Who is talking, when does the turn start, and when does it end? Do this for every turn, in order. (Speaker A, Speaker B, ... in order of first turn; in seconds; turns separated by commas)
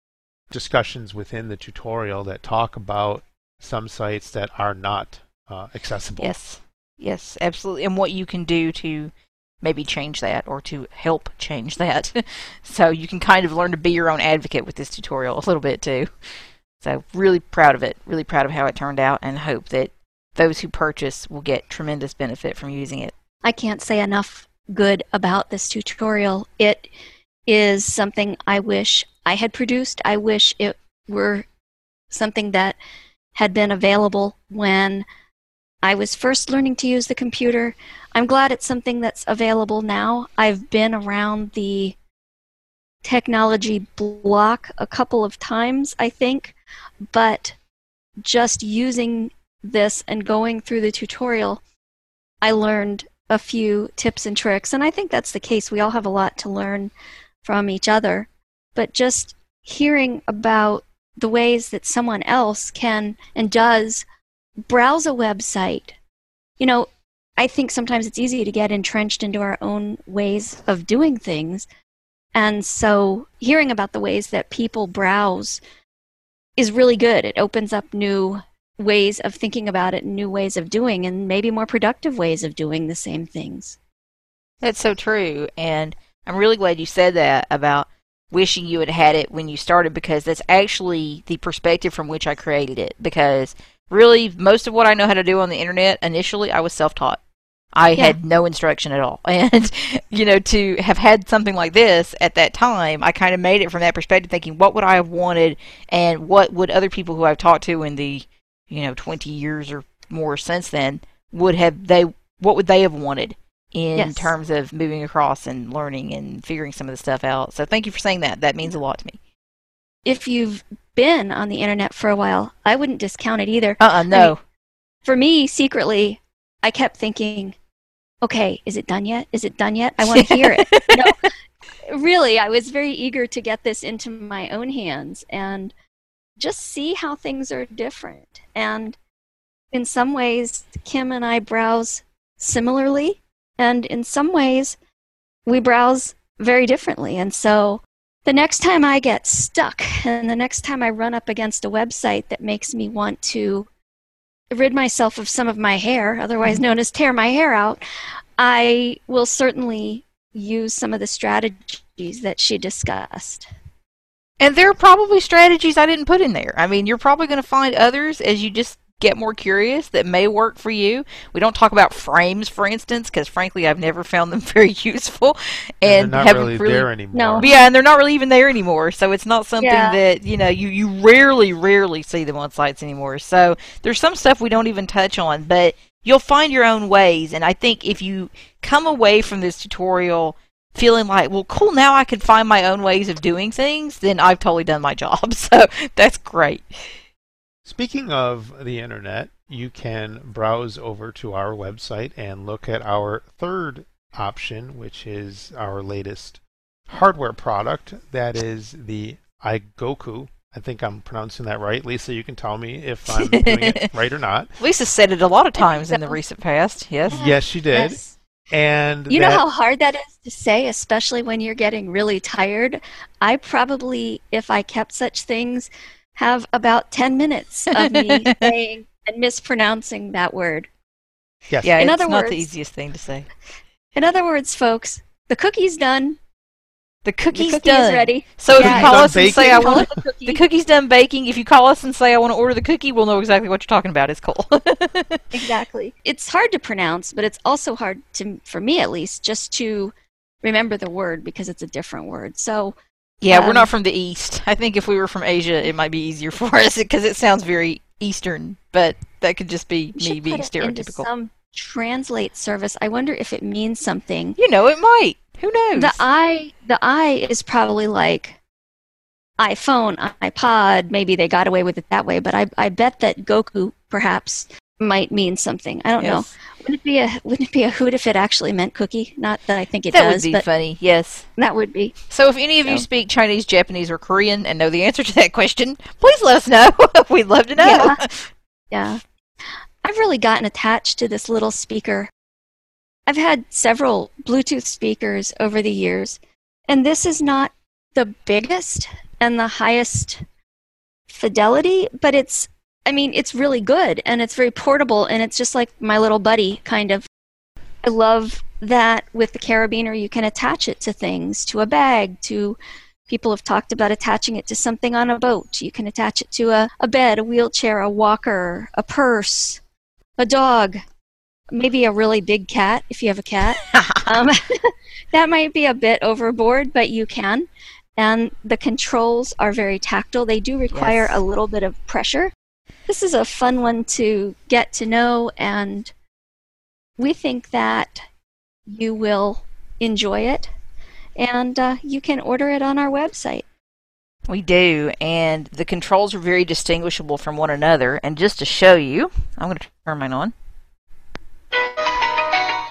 Speaker A: 0.5-6.3, Speaker B: 6.2-16.1, Speaker B: 16.8-23.1, Speaker C: 23.4-26.9, Speaker C: 27.5-31.4, Speaker C: 32.1-32.8, Speaker C: 33.3-35.0, Speaker C: 35.8-42.0, Speaker C: 43.0-46.5, Speaker C: 47.1-47.5, Speaker C: 48.2-51.6, Speaker C: 52.4-56.9, Speaker C: 57.4-64.0, Speaker C: 64.7-66.0, Speaker C: 66.6-71.7, Speaker C: 72.3-75.6, Speaker C: 76.6-83.8, Speaker B: 84.6-97.2, Speaker B: 97.7-119.2, Speaker C: 114.0-114.3, Speaker C: 120.0-124.3, Speaker B: 123.8-124.4, Speaker C: 125.0-127.5, Speaker C: 128.2-131.1, Speaker B: 130.0-131.1, Speaker C: 131.9-135.7, Speaker C: 136.4-138.9, Speaker C: 139.7-144.8, Speaker C: 145.4-153.7, Speaker C: 154.5-157.8, Speaker C: 158.4-163.4, Speaker B: 164.4-176.9, Speaker A: 175.8-177.5, Speaker C: 177.1-177.6, Speaker B: 177.4-196.9, Speaker C: 179.6-180.0, Speaker A: 197.6-214.5, Speaker B: 213.1-213.9, Speaker B: 214.6-217.2, Speaker C: 215.6-216.2, Speaker A: 217.1-219.4, Speaker C: 217.1-218.1, Speaker C: 219.1-230.7, Speaker B: 227.8-228.5, Speaker A: 231.5-231.8, Speaker B: 231.6-233.3, Speaker C: 231.8-232.4, Speaker C: 233.9-236.2, Speaker B: 237.0-245.2, Speaker C: 237.3-240.4, Speaker A: 238.5-239.9, Speaker C: 245.3-252.7, Speaker B: 253.2-261.1, Speaker C: 253.3-253.7, Speaker C: 260.0-264.4, Speaker B: 264.4-266.0, Speaker C: 265.8-268.4, Speaker C: 269.4-280.4, Speaker B: 276.0-276.3, Speaker B: 279.9-281.3, Speaker C: 281.4-281.9, Speaker B: 282.1-288.3, Speaker C: 287.6-288.0, Speaker C: 288.7-289.0, Speaker C: 289.8-292.1, Speaker C: 293.1-300.2, Speaker C: 301.1-307.1, Speaker C: 307.8-319.6, Speaker C: 320.2-320.8, Speaker C: 321.5-332.3, Speaker B: 323.7-324.0, Speaker B: 330.7-331.2, Speaker C: 332.9-335.9, Speaker C: 337.0-338.0, Speaker C: 338.7-340.5, Speaker C: 341.2-343.4, Speaker B: 344.3-350.3